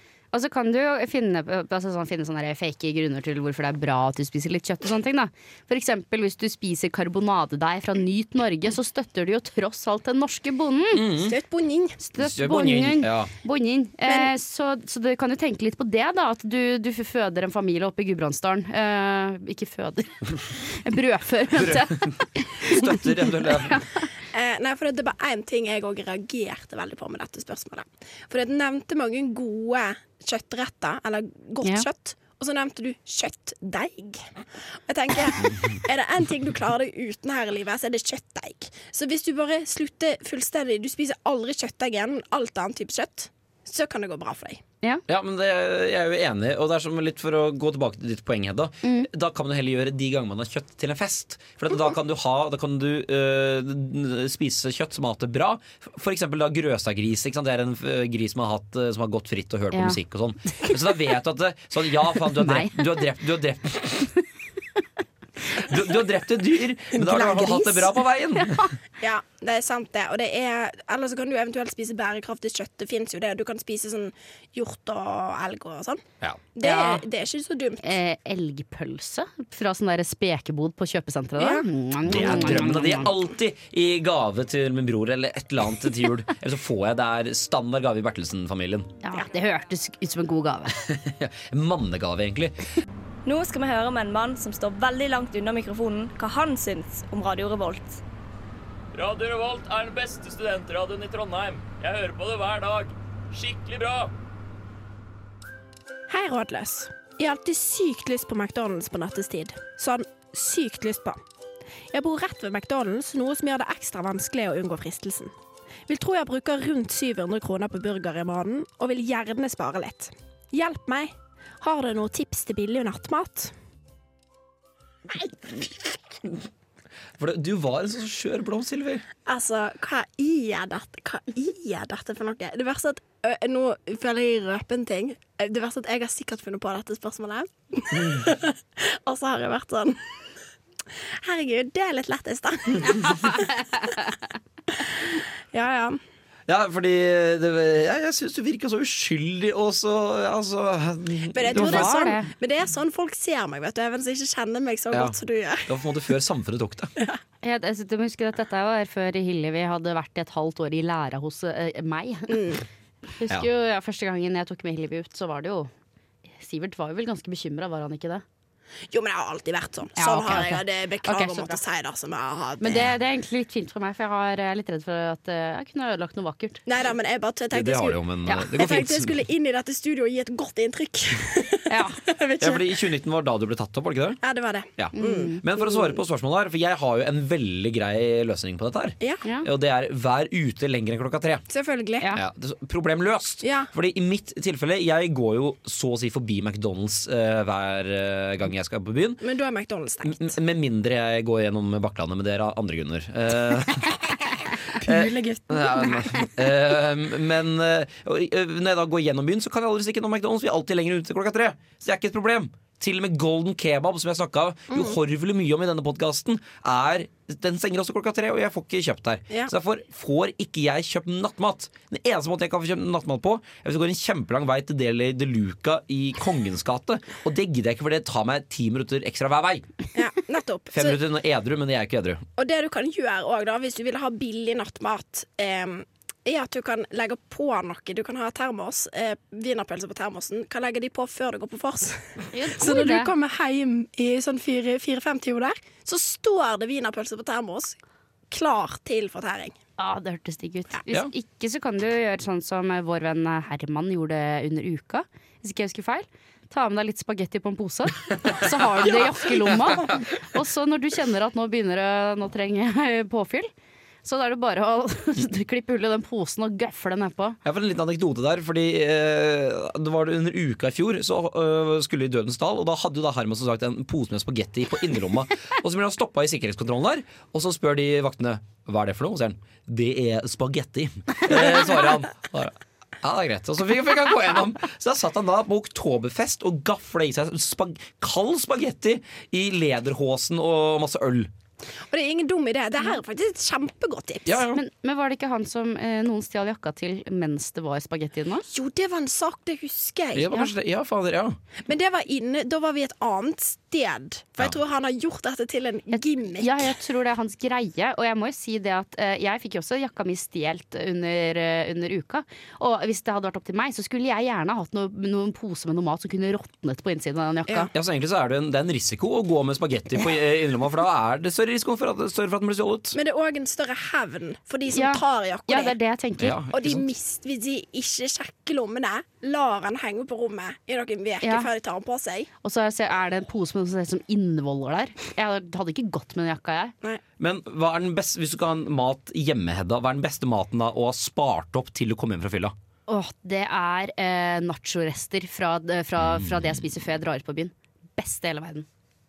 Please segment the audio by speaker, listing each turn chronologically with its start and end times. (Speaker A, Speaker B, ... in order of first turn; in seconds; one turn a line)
Speaker A: 0.3-11.1
Speaker B: 10.9-11.3
Speaker C: 11.2-12.0
Speaker A: 12.0-24.1
Speaker B: 12.2-13.3
Speaker B: 21.6-23.8
Speaker C: 24.3-44.6
Speaker B: 45.1-64.1
Speaker A: 48.8-49.1
Speaker A: 59.7-60.0
Speaker A: 62.3-63.0
Speaker B: 65.5-68.7
Speaker C: 66.9-68.0
Speaker C: 69.0-76.0
Speaker C: 76.5-78.0
Speaker A: 76.6-77.0
Speaker A: 77.8-83.1
Speaker C: 81.4-81.7
Speaker B: 82.0-88.9
Speaker A: 89.0-90.8
Speaker B: 90.8-92.5
Speaker D: 93.2-98.0
Speaker E: 98.9-104.1
Speaker C: 106.1-111.2
Speaker C: 111.9-115.3
Speaker C: 115.9-123.5
Speaker B: 127.2-129.0
Speaker C: 129.2-140.0
Speaker B: 137.9-138.3
Speaker C: 141.0-143.5
Speaker A: 142.9-144.1
Speaker C: 144.7-146.0
Speaker B: 146.5-152.1
Speaker C: 151.3-155.7
Speaker A: 151.5-152.3
Speaker B: 154.9-156.9
Speaker A: 157.4-162.6
Speaker C: 162.3-162.6
Speaker A: 163.1-165.7
Speaker A: 166.4-168.2
Speaker C: 168.9-172.9
Speaker A: 170.0-171.6
Speaker A: 172.6-176.6
Speaker C: 176.7-182.8
Speaker B: 177.5-179.1
Speaker A: 181.7-182.0
Speaker B: 182.4-184.2
Speaker C: 184.2-186.0
Speaker B: 184.8-191.4
Speaker A: 184.9-185.4
Speaker C: 191.5-192.1
Speaker B: 192.1-199.2
Speaker C: 193.4-193.7
Speaker C: 199.2-200.3
Speaker B: 200.0-204.0
Speaker C: 204.7-206.3
Speaker B: 204.8-229.7
Speaker C: 214.7-214.9
Speaker C: 229.9-231.0
Speaker B: 230.7-232.2
Speaker C: 232.4-247.8
Speaker A: 242.3-243.1
Speaker C: 248.3-249.6
Speaker A: 249.8-263.5
Speaker A: 264.0-267.4
Speaker B: 267.4-291.3
Speaker C: 291.9-294.4
Speaker B: 294.3-294.6
Speaker A: 294.5-298.5
Speaker C: 298.5-300.3
Speaker B: 300.1-301.4
Speaker C: 301.7-306.6
Speaker A: 305.9-317.7
Speaker B: 317.7-323.0
Speaker C: 322.9-325.8
Speaker A: 324.7-326.4
Speaker B: 326.2-326.9
Speaker C: 326.5-332.3
Speaker A: 331.2-331.5
Speaker A: 332.4-336.7
Speaker B: 337.2-342.5
Speaker A: 342.9-348.7